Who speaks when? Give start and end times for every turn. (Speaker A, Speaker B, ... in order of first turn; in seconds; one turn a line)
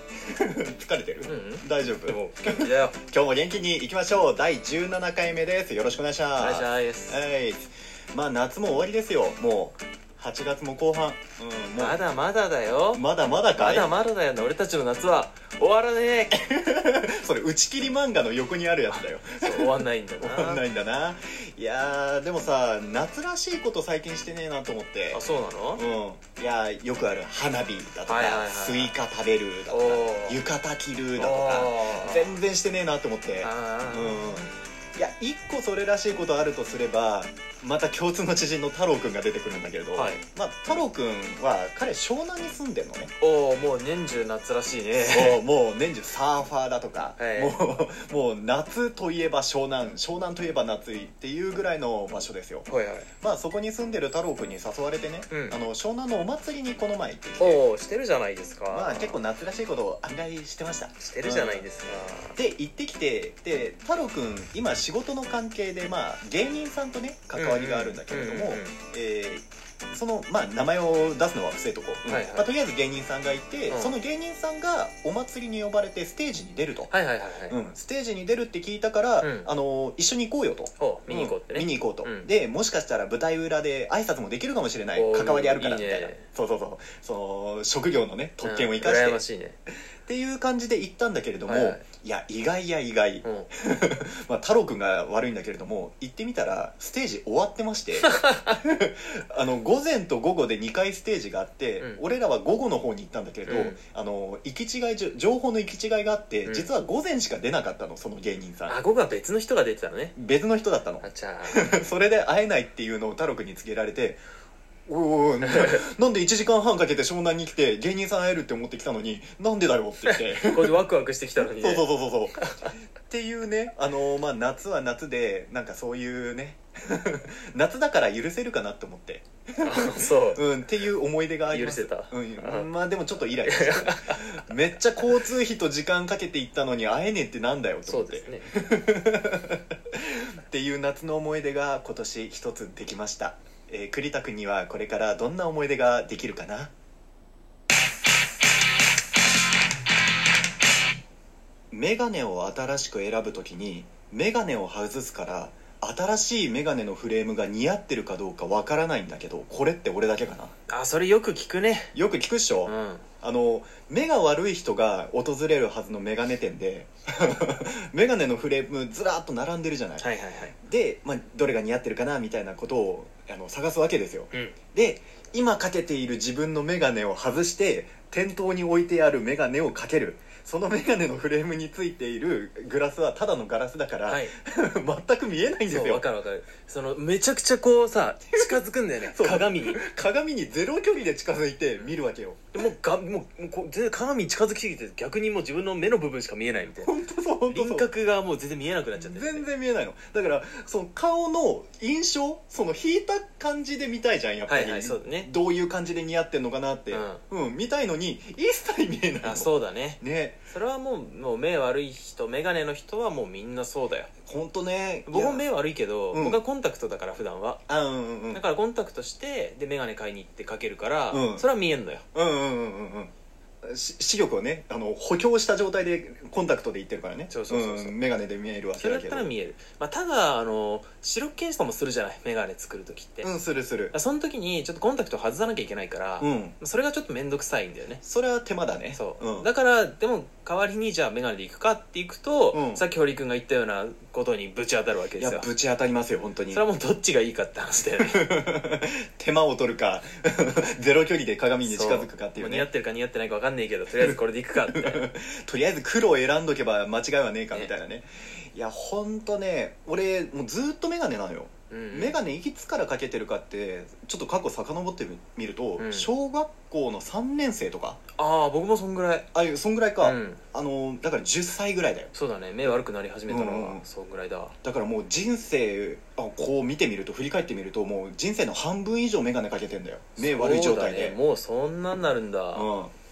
Speaker A: 0.3-12.0
Speaker B: 1.3-3.0
Speaker B: 6.4-7.2
Speaker B: 11.8-16.4
Speaker A: 12.9-13.9
Speaker A: 16.3-25.2
Speaker B: 18.9-20.6
Speaker B: 25.1-25.8
Speaker A: 25.8-43.1
Speaker B: 28.1-28.9
Speaker B: 29.7-30.4
Speaker B: 31.2-32.4
Speaker B: 33.4-34.3
Speaker B: 39.9-40.2
Speaker B: 43.2-45.4
Speaker A: 45.0-52.7
Speaker B: 47.2-47.6
Speaker B: 52.7-53.1
Speaker A: 53.2-57.7
Speaker B: 55.3-55.6
Speaker B: 57.4-59.2
Speaker A: 58.7-61.7
Speaker B: 61.0-62.4
Speaker A: 62.4-76.9
Speaker B: 67.3-68.8
Speaker B: 72.1-72.5
Speaker B: 73.7-74.0
Speaker B: 76.9-77.6
Speaker A: 77.5-89.2
Speaker B: 79.2-79.5
Speaker B: 80.8-82.3
Speaker B: 85.0-86.2
Speaker B: 88.4-89.6
Speaker A: 90.1-108.8
Speaker B: 91.5-91.8
Speaker B: 93.2-93.5
Speaker B: 98.0-98.6
Speaker B: 103.5-103.8
Speaker B: 108.7-110.2
Speaker A: 110.2-114.2
Speaker B: 111.0-111.7
Speaker A: 114.9-122.4
Speaker B: 115.5-115.8
Speaker B: 120.0-122.7
Speaker A: 123.0-146.7
Speaker B: 129.6-130.4
Speaker B: 131.5-132.7
Speaker B: 133.4-134.2
Speaker B: 137.9-138.5
Speaker A: 151.7-160.5
Speaker B: 160.7-161.9
Speaker A: 161.9-170.1
Speaker B: 162.7-163.1
Speaker B: 170.0-170.5
Speaker A: 170.6-186.1
Speaker B: 184.1-184.3
Speaker B: 185.7-189.8
Speaker A: 188.3-192.4
Speaker B: 192.5-197.0
Speaker A: 196.7-197.9
Speaker B: 197.5-199.5
Speaker A: 199.0-210.4
Speaker B: 204.5-205.3
Speaker B: 206.9-207.2
Speaker B: 209.2-214.1
Speaker A: 214.3-215.5
Speaker B: 215.1-217.6
Speaker A: 216.1-216.4
Speaker A: 217.7-218.4
Speaker B: 218.3-222.1
Speaker A: 221.1-221.5
Speaker A: 222.1-223.1
Speaker A: 223.6-229.3
Speaker B: 227.3-228.0
Speaker B: 228.8-233.3
Speaker A: 233.2-233.9
Speaker B: 233.9-238.0
Speaker A: 236.2-236.6
Speaker A: 238.0-239.5
Speaker B: 238.9-245.5
Speaker A: 242.5-242.8
Speaker A: 245.2-246.6
Speaker B: 246.5-248.3
Speaker A: 248.0-252.7
Speaker B: 251.7-255.1
Speaker A: 254.0-268.0
Speaker B: 261.7-262.2
Speaker B: 265.8-266.1
Speaker B: 268.2-269.3
Speaker A: 269.3-272.1
Speaker B: 270.0-270.4
Speaker B: 272.1-274.6
Speaker A: 273.3-273.9
Speaker A: 274.6-281.2
Speaker B: 280.2-282.7
Speaker A: 282.5-282.9